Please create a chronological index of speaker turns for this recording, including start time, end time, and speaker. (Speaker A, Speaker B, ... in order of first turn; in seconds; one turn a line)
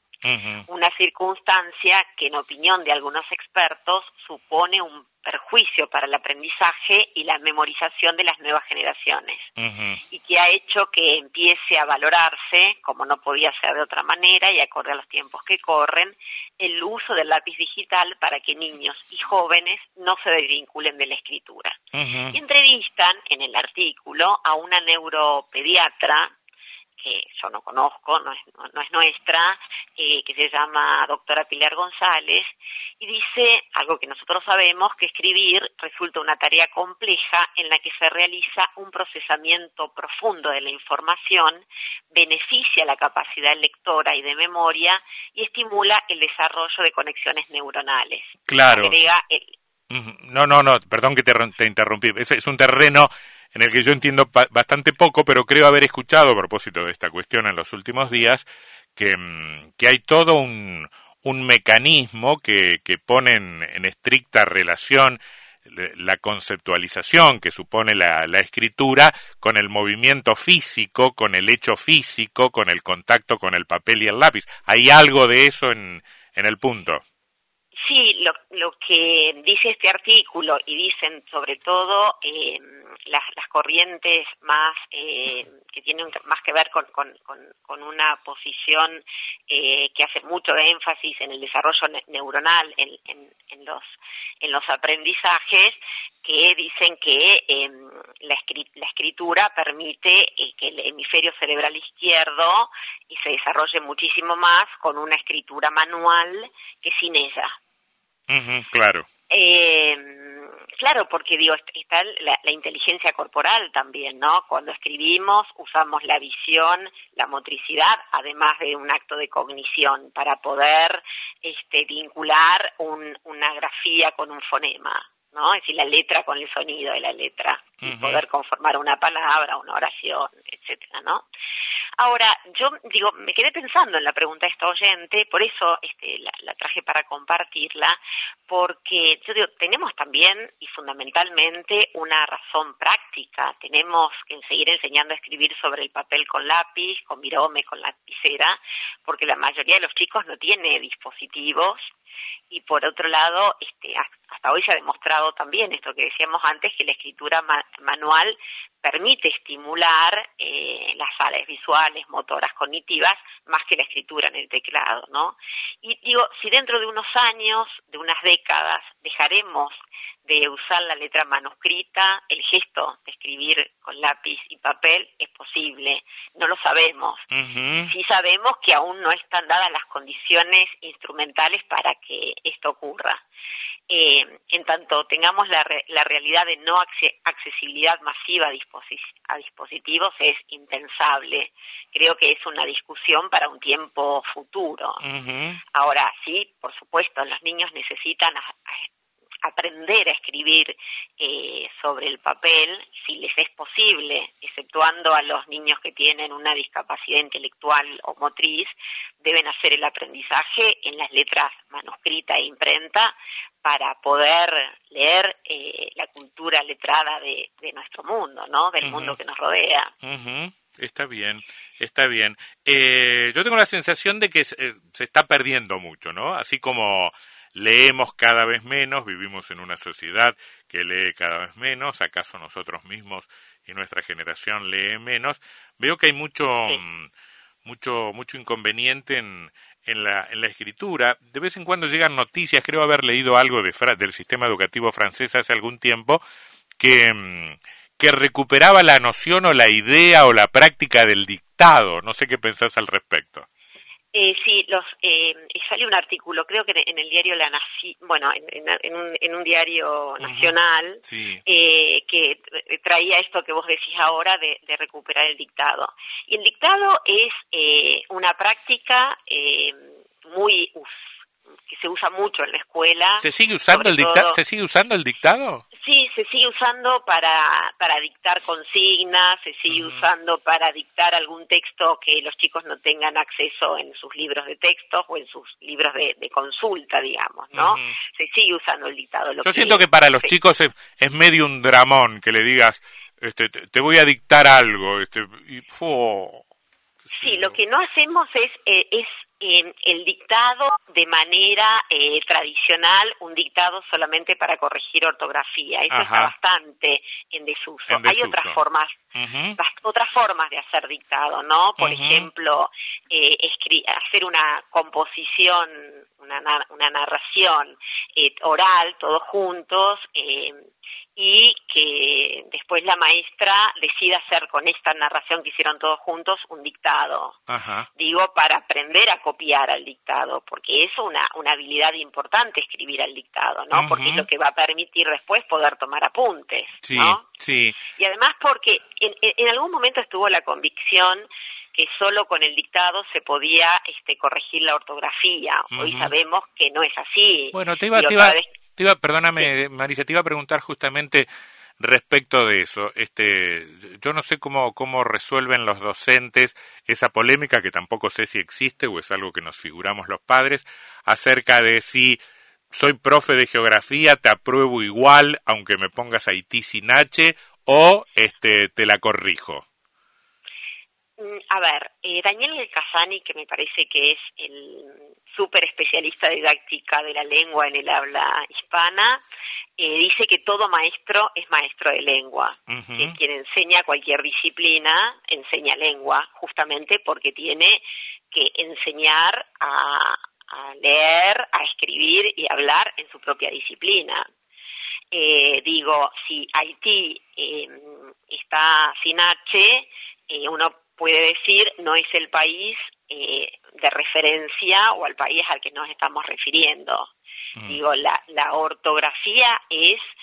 Speaker A: 0.2-0.7
Speaker B: 0.7-9.5
Speaker A: 9.6-10.0
Speaker B: 10.1-21.8
Speaker A: 21.9-22.4
Speaker B: 22.3-26.3
Speaker B: 27.0-49.5
Speaker A: 48.5-49.0
Speaker A: 49.9-77.0
Speaker B: 77.8-107.5
Speaker A: 108.3-109.1
Speaker B: 109.3-131.3
Speaker A: 127.8-128.2
Speaker B: 132.0-151.9
Speaker B: 152.5-177.2
Speaker A: 177.3-177.9
Speaker B: 177.9-183.2
Speaker B: 183.9-195.0
Speaker A: 195.0-195.6
Speaker B: 195.7-198.9
Speaker B: 199.4-219.9
Speaker A: 218.8-219.2
Speaker A: 220.0-237.1
Speaker A: 237.7-246.2
Speaker A: 246.8-253.5
Speaker B: 254.1-271.1
Speaker A: 260.2-261.4
Speaker B: 271.7-274.4
Speaker A: 273.2-275.6
Speaker B: 275.8-290.4
Speaker A: 279.7-280.1
Speaker A: 287.5-288.0
Speaker A: 289.4-296.4
Speaker A: 297.0-297.6
Speaker B: 297.1-309.0
Speaker A: 305.9-306.3
Speaker A: 307.9-308.6
Speaker A: 309.1-309.6
Speaker B: 309.6-327.4
Speaker A: 311.8-312.3
Speaker A: 327.5-327.9
Speaker B: 328.0-337.2
Speaker A: 333.7-334.3
Speaker A: 336.8-337.8
Speaker B: 337.9-348.5
Speaker A: 345.7-346.1
Speaker A: 347.5-369.6
Speaker B: 371.2-379.2
Speaker B: 379.8-394.3
Speaker A: 382.7-383.2
Speaker B: 395.1-407.1
Speaker B: 407.7-410.0